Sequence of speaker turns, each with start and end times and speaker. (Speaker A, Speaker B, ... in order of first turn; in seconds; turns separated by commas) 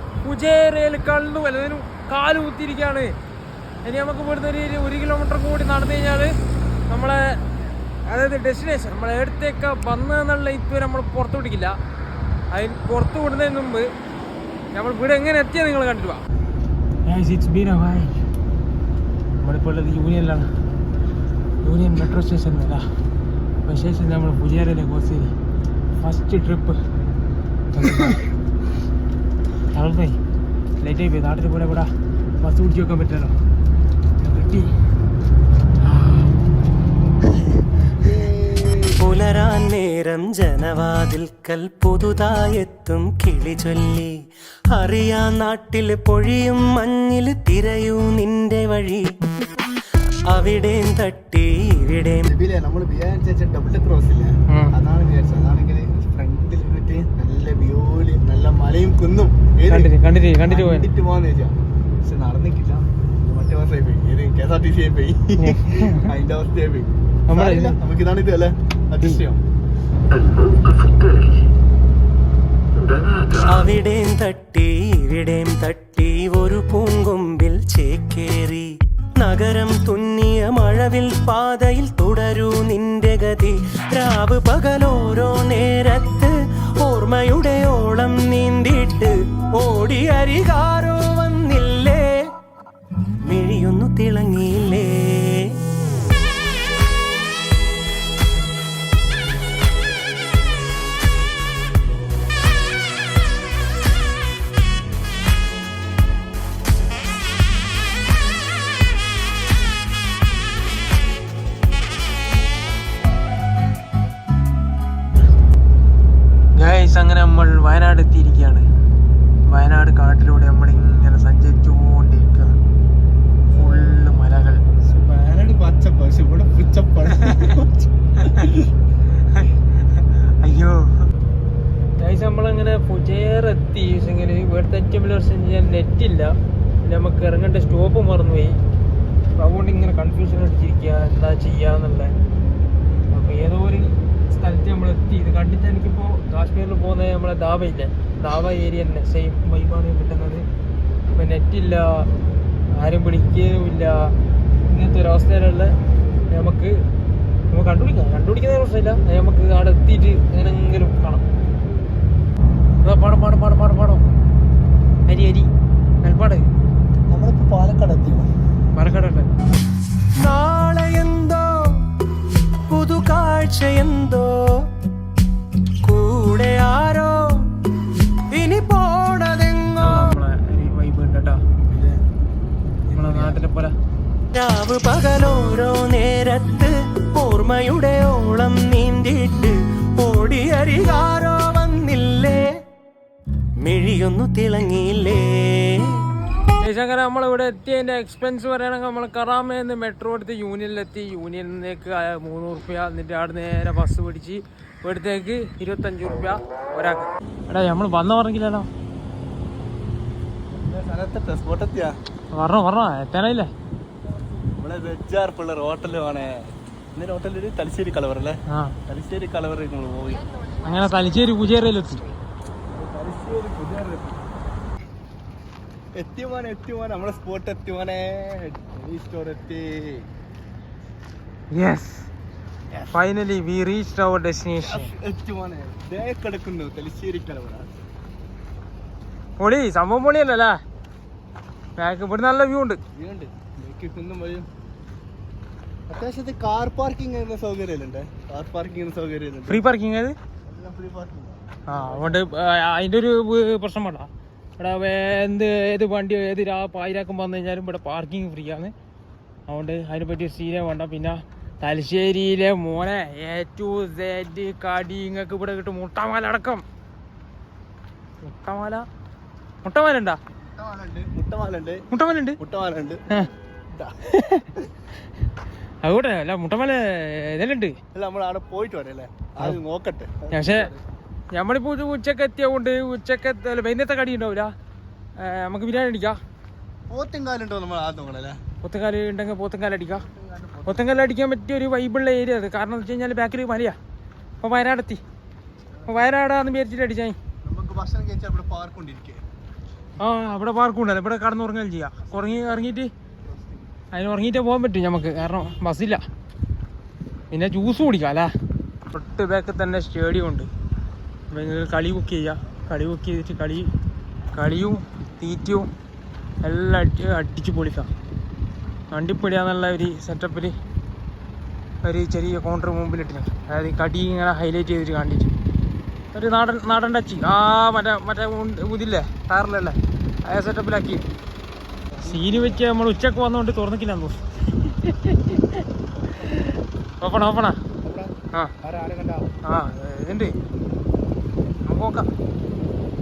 Speaker A: 0.2-3.1, Speaker A: 3.9-6.3, Speaker A: 6.9-11.8, Speaker A: 12.5-13.9, Speaker A: 14.7-16.2, Speaker A: 17.1-18.1, Speaker A: 19.4-20.5, Speaker A: 21.6-22.8, Speaker A: 23.7-25.3, Speaker A: 26.0-26.8, Speaker A: 27.7-28.2, Speaker A: 29.7-30.2, Speaker A: 30.8-33.4, Speaker A: 34.2-34.7, Speaker A: 35.9-36.3, Speaker B: 38.0-39.0, Speaker C: 39.0-44.1, Speaker C: 44.7-49.1, Speaker C: 50.3-52.3, Speaker B: 52.2-69.4, Speaker A: 54.5-54.8, Speaker A: 59.7-60.9, Speaker A: 65.4-66.1, Speaker A: 67.3-67.8, Speaker C: 73.4-92.2, Speaker C: 93.3-95.6, Speaker A: 116.6-118.7, Speaker A: 119.5-122.5, Speaker A: 123.5-124.6, Speaker B: 124.8-128.7, Speaker A: 128.2-128.5, Speaker A: 130.4-130.9, Speaker A: 132.0-136.3, Speaker A: 136.8-138.6, Speaker A: 139.4-142.1, Speaker A: 143.1-150.4, Speaker A: 151.1-152.1, Speaker A: 152.8-154.1, Speaker A: 154.7-155.7, Speaker A: 156.3-156.7, Speaker A: 157.5-161.2, Speaker A: 162.8-164.0, Speaker A: 165.1-165.5, Speaker A: 166.0-166.5, Speaker B: 167.1-168.3, Speaker A: 168.8-169.3, Speaker C: 170.2-171.8, Speaker C: 172.7-174.7, Speaker C: 175.8-177.3, Speaker C: 178.3-180.2, Speaker A: 179.8-181.4, Speaker B: 181.7-182.0, Speaker B: 182.9-183.4, Speaker A: 182.9-183.7, Speaker C: 184.3-192.4, Speaker C: 193.6-196.0, Speaker A: 196.6-208.7, Speaker B: 210.6-212.0, Speaker A: 212.3-213.5, Speaker B: 214.6-220.3, Speaker A: 218.5-218.8, Speaker A: 220.6-222.1, Speaker B: 222.7-224.2, Speaker B: 225.9-230.1, Speaker A: 231.5-232.1, Speaker A: 232.9-234.9, Speaker B: 234.6-237.8, Speaker A: 239.4-240.6, Speaker A: 241.8-242.8, Speaker B: 242.9-244.5, Speaker B: 245.9-249.6, Speaker A: 249.5-250.2, Speaker B: 250.5-252.2, Speaker A: 251.7-258.7, Speaker A: 259.5-266.6, Speaker A: 268.2-268.9, Speaker A: 269.6-270.2, Speaker B: 270.5-271.8, Speaker A: 271.9-272.4, Speaker B: 272.4-273.0, Speaker A: 274.1-274.5, Speaker A: 275.8-277.8, Speaker B: 277.9-280.8, Speaker A: 280.3-280.7, Speaker A: 281.3-284.5, Speaker A: 285.2-286.2, Speaker B: 286.9-288.4, Speaker A: 288.6-290.0, Speaker B: 289.9-291.0, Speaker A: 290.7-293.8, Speaker A: 294.4-295.0, Speaker A: 295.9-297.2, Speaker B: 297.4-299.2, Speaker A: 300.0-302.9, Speaker B: 302.1-302.5, Speaker B: 303.2-303.7, Speaker A: 303.9-306.0, Speaker A: 307.3-308.3, Speaker A: 308.9-310.5, Speaker A: 311.3-313.7, Speaker A: 314.3-315.7, Speaker A: 316.4-317.9, Speaker A: 318.9-320.6, Speaker A: 321.8-325.3, Speaker A: 326.1-331.1, Speaker B: 331.9-332.5, Speaker A: 332.0-335.6, Speaker A: 336.2-337.6, Speaker B: 337.8-339.3, Speaker A: 339.4-340.3, Speaker A: 341.6-342.1